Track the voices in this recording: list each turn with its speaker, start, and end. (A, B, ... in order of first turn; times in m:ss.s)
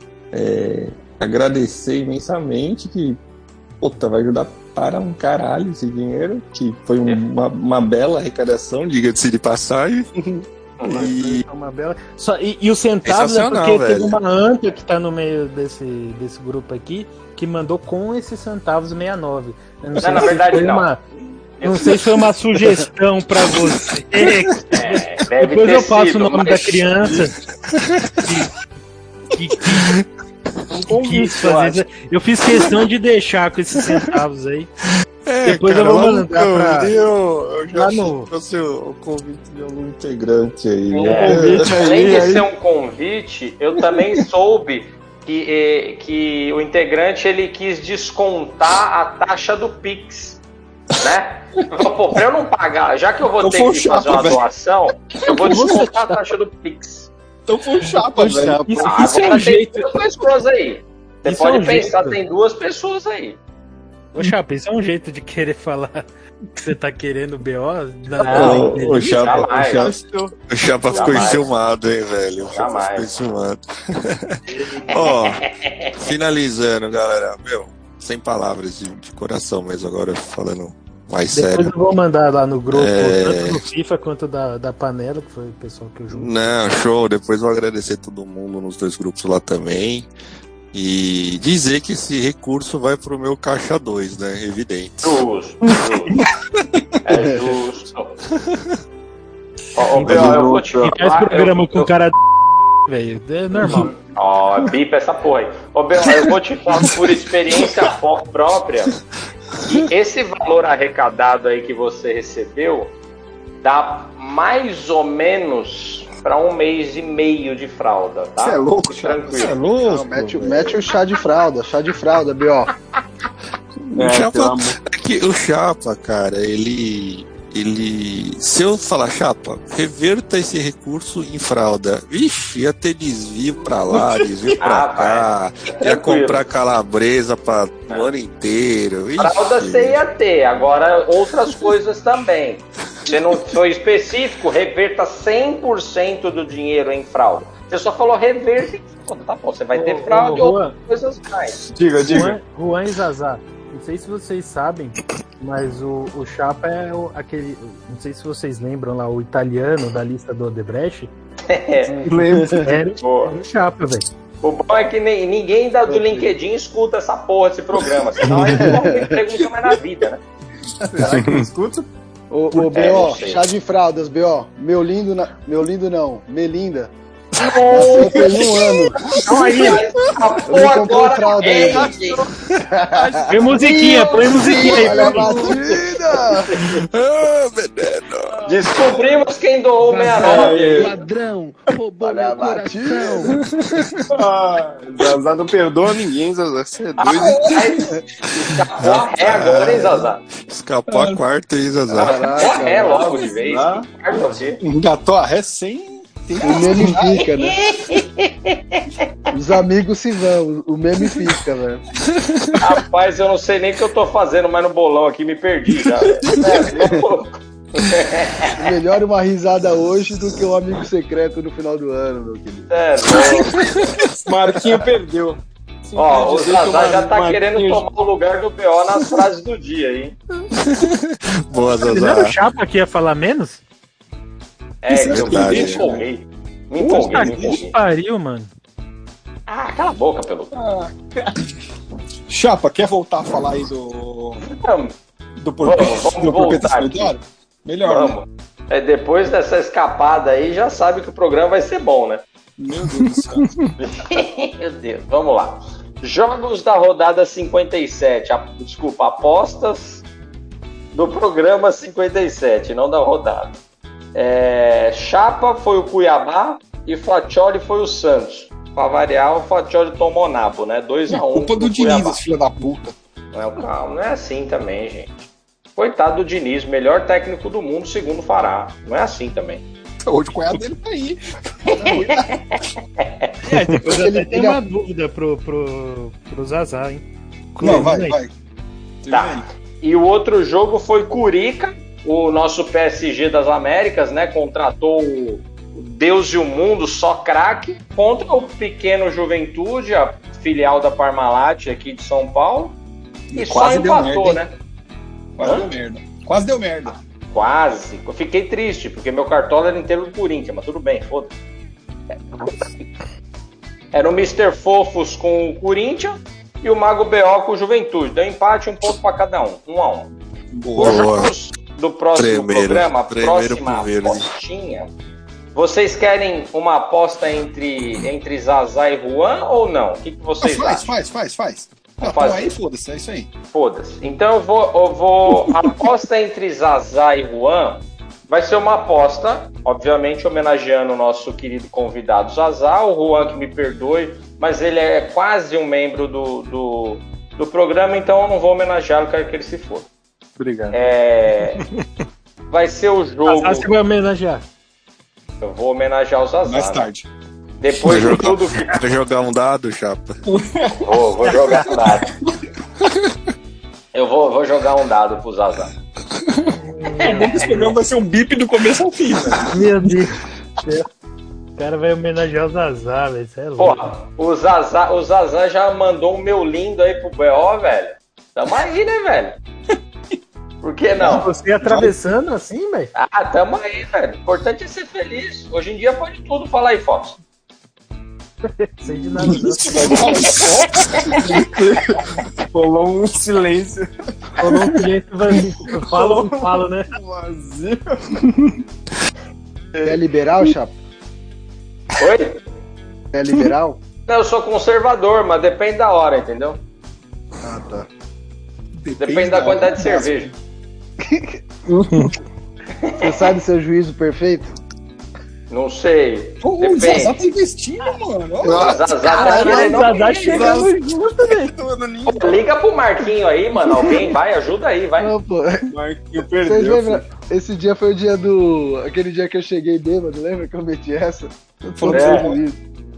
0:00.3-0:03.2 A
0:03.8-0:10.1 A
0:10.8-0:11.1 B
0:10.8-0:11.4 A
0:11.0-0:21.0 C
0:13.0-0:14.2 A
0:20.0-0:20.9 B
0:21.6-0:22.0 B
0:21.6-0:27.4 C
0:24.7-0:26.9 B
0:27.7-0:28.3 A
0:28.2-0:28.5 C
0:29.3-0:30.0 C
0:30.7-0:31.9 D
0:30.9-0:34.7 C
0:35.2-0:41.7 A
0:35.4-0:36.9 C
0:37.7-0:38.3 C
0:40.9-0:42.5 D
0:41.0-0:50.4 B
0:51.0-0:57.1 B
0:53.4-0:54.4 E
0:55.2-0:56.2 C
0:57.5-0:58.8 E
0:58.2-0:58.9 D
0:58.2-0:59.9 C
0:58.8-1:03.4 B
1:01.2-1:02.2 C
1:04.1-1:06.0 C
1:06.6-1:09.3 C
1:08.3-1:08.6 D
1:08.3-1:21.7 A
1:09.0-1:09.9 B
1:09.5-1:10.3 D
1:10.9-1:11.5 B
1:10.9-1:11.3 D
1:12.5-1:13.1 B
1:14.5-1:14.8 C
1:14.9-1:15.9 B
1:21.3-1:26.3 C
1:22.7-1:23.6 A
1:26.1-1:30.1 A
1:30.7-1:35.2 A
1:35.0-1:36.2 B
1:37.0-1:38.1 B
1:39.7-1:41.9 B
1:39.9-1:42.1 C
1:40.0-1:41.0 D
1:42.8-1:43.9 C
1:43.7-1:49.0 B
1:49.6-1:52.9 B
1:53.6-1:59.6 B
1:58.4-1:59.1 D
1:58.9-2:00.8 A
1:59.8-2:02.7 F
2:03.9-2:20.0 A
2:04.0-2:04.8 D
2:14.6-2:16.4 B
2:19.2-2:31.6 B
2:29.7-2:30.7 C
2:31.7-2:32.4 D
2:32.0-2:41.1 C
2:41.5-2:41.9 B
2:41.9-2:42.7 F
2:42.0-2:42.7 D
2:42.6-2:44.0 C
2:43.0-2:43.4 B
2:44.4-2:50.2 B
2:45.9-2:46.3 F
2:48.4-2:49.2 F
2:50.9-2:51.8 D
2:51.1-2:51.4 A
2:52.3-2:56.9 F
2:52.7-2:53.5 B
2:57.4-2:58.4 B
2:57.7-2:59.0 F
2:59.2-2:59.8 C
2:59.2-3:02.2 B
3:00.5-3:02.0 F
3:01.4-3:02.3 D
3:02.7-3:06.6 F
3:02.9-3:05.1 D
3:03.3-3:05.5 C
3:06.6-3:08.4 A
3:08.4-3:10.9 B
3:08.5-3:09.0 D
3:09.8-3:13.4 G
3:10.2-3:11.0 D
3:12.0-3:13.3 F
3:13.4-3:14.0 A
3:14.1-3:17.4 D
3:17.0-3:20.2 B
3:17.1-3:17.8 E
3:18.8-3:22.2 A
3:19.5-3:19.8 E
3:21.9-3:24.6 B
3:21.9-3:23.1 F
3:22.7-3:23.9 D
3:24.6-3:27.2 E
3:26.4-3:27.6 F
3:27.4-3:28.9 B
3:29.3-3:31.8 F
3:32.6-3:38.6 B
3:36.3-3:36.7 E
3:38.6-3:42.7 F
3:42.7-3:43.8 B
3:44.2-3:47.9 D
3:46.0-3:50.2 B
3:50.5-3:52.4 A
3:51.8-3:53.6 C
3:54.8-3:57.7 B
3:54.9-3:56.0 E
3:55.0-3:55.9 A
3:56.8-3:57.6 E
3:56.9-3:58.5 C
3:59.5-4:00.5 B
4:00.5-4:00.9 E
4:02.3-4:04.4 E
4:04.4-4:04.9 B
4:05.4-4:08.2 E
4:05.6-4:07.1 B
4:07.8-4:12.2 B
4:12.6-4:13.5 E
4:13.8-4:20.0 B
4:20.9-4:23.6 B
4:24.1-4:32.2 B
4:31.1-4:33.0 E
4:33.3-4:39.6 B
4:40.0-4:42.3 E
4:41.8-4:43.3 B
4:43.4-4:47.0 C
4:43.5-4:44.0 E
4:43.8-4:44.6 F
4:47.5-4:48.2 C
4:47.6-4:48.3 E
4:49.0-4:49.4 E
4:49.1-5:02.8 B
5:03.3-5:04.4 E
5:03.3-5:04.5 B
5:05.4-5:07.0 E
5:05.4-5:05.7 B
5:07.3-5:11.3 B
5:12.3-5:12.6 B
5:13.9-5:20.1 B
5:20.5-5:21.0 E
5:20.7-5:24.9 B
5:20.8-5:21.3 A
5:22.1-5:24.3 A
5:25.5-5:30.9 B
5:30.4-5:33.3 E
5:32.0-5:32.5 B
5:33.5-5:49.9 B
5:50.4-5:50.8 D
5:50.7-5:51.6 B
5:52.5-5:53.7 B
5:53.3-5:54.4 C
5:55.4-5:56.9 B
5:56.4-5:57.1 E
5:57.6-5:58.8 B
5:57.8-6:00.2 A
6:00.3-6:00.8 E
6:00.8-6:02.1 B
6:01.5-6:01.8 E
6:03.9-6:05.7 B
6:06.6-6:07.7 C
6:07.0-6:09.7 E
6:07.0-6:07.5 B
6:09.4-6:10.9 C
6:11.6-6:13.9 C
6:13.6-6:19.4 B
6:20.6-6:21.3 B
6:21.0-6:22.9 C
6:21.6-6:21.9 E
6:23.0-6:27.2 B
6:28.5-6:30.2 C
6:29.2-6:31.5 E
6:31.2-6:33.9 D
6:34.4-6:36.9 C
6:34.4-6:34.7 D
6:35.7-6:38.2 D
6:39.8-6:40.7 F
6:42.0-6:42.4 B
6:43.1-6:43.8 F
6:44.1-6:46.6 B
6:47.4-6:47.9 F
6:48.8-6:50.3 E
6:49.0-6:50.3 B
6:51.0-6:51.3 F
6:52.8-6:53.3 B
6:53.0-6:54.5 F
6:55.5-6:57.2 B
6:56.4-6:58.9 E
6:58.5-7:00.5 B
6:59.1-7:01.5 C
6:59.2-7:02.4 D
7:02.1-7:05.1 B
7:05.0-7:05.7 F
7:05.7-7:07.0 D
7:06.4-7:12.6 F
7:11.8-7:12.4 E
7:11.9-7:12.4 B